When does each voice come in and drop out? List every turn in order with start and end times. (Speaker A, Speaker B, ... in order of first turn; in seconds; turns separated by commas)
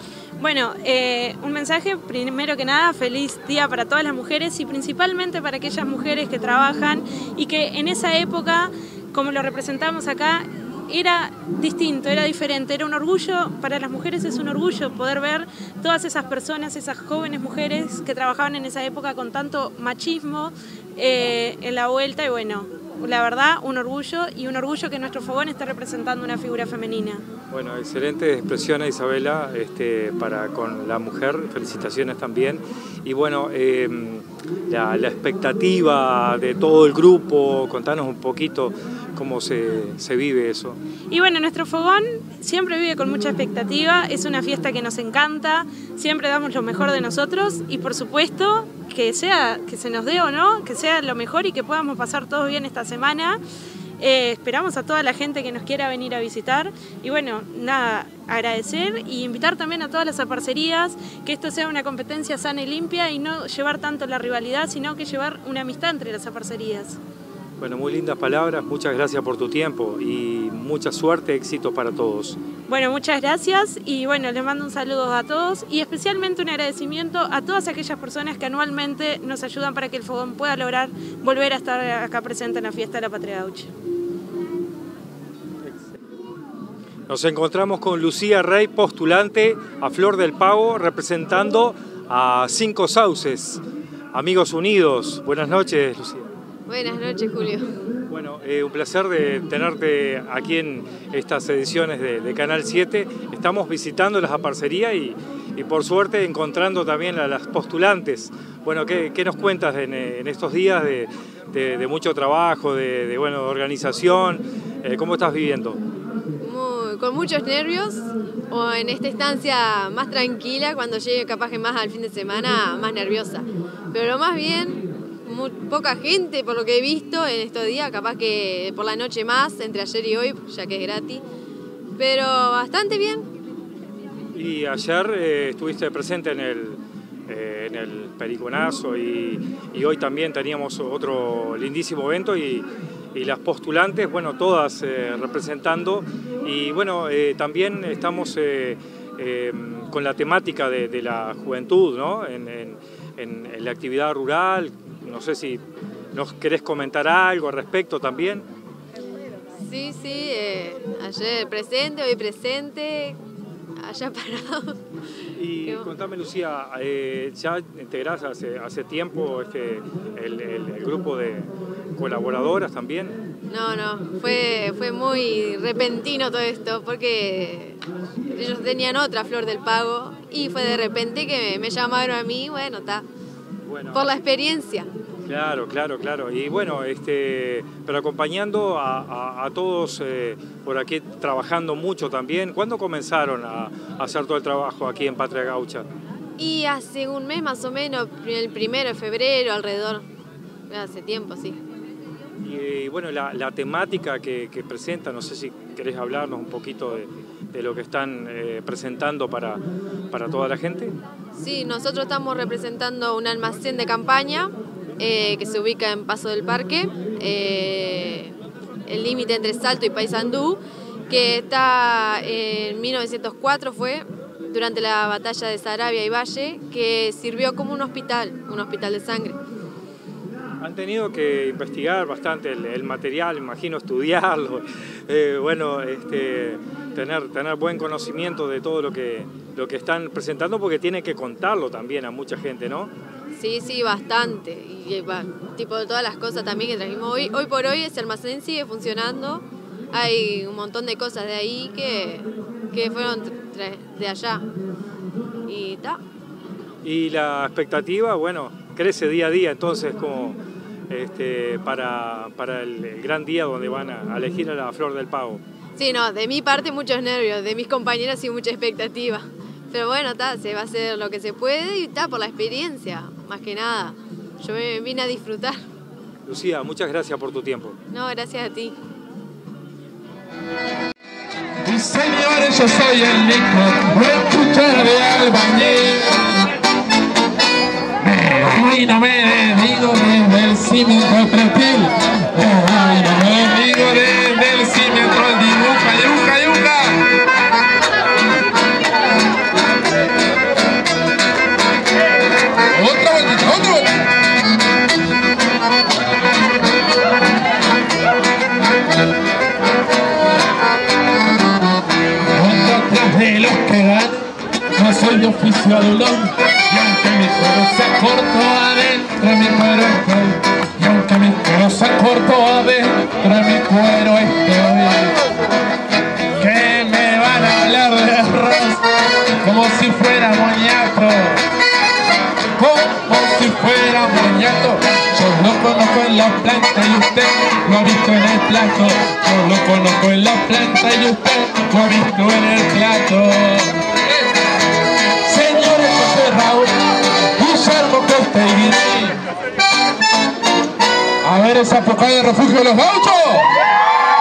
Speaker A: 0.4-27.2, Speaker B: 27.5-40.8, Speaker A: 41.1-53.4, Speaker A: 54.0-67.0, Speaker B: 67.6-72.4, Speaker A: 72.7-83.7, Speaker B: 87.1-93.6, Speaker B: 94.1-96.3, Speaker C: 96.7-97.7, Speaker B: 98.1-115.8, Speaker C: 116.4-131.2, Speaker C: 132.0-133.3, Speaker B: 134.3-155.6, Speaker B: 156.1-158.5, Speaker C: 159.6-163.2, Speaker C: 163.8-164.8, Speaker B: 165.4-173.2, Speaker C: 165.6-166.0, Speaker C: 173.5-177.8, Speaker C: 178.3-183.1, Speaker B: 183.7-184.1, Speaker C: 183.9-184.9, Speaker B: 185.3-195.9, Speaker C: 196.4-200.1, Speaker C: 200.7-201.6, Speaker B: 202.4-211.0, Speaker C: 211.4-218.3, Speaker C: 218.9-229.4, Speaker B: 230.6-242.9, Speaker C: 243.3-254.5, Speaker C: 255.5-256.0, Speaker B: 256.8-260.4, Speaker B: 260.9-265.4, Speaker C: 265.8-275.6, Speaker B: 276.3-277.8, Speaker C: 277.9-278.8, Speaker D: 281.6-286.2, Speaker D: 288.0-296.9, Speaker D: 302.8-303.9, Speaker D: 312.4-314.1, Speaker D: 314.8-325.1, Speaker D: 326.4-328.8, Speaker D: 329.4-331.4, Speaker D: 332.6-344.3, Speaker D: 345.3-346.7, Speaker D: 347.4-349.2, Speaker D: 351.2-353.4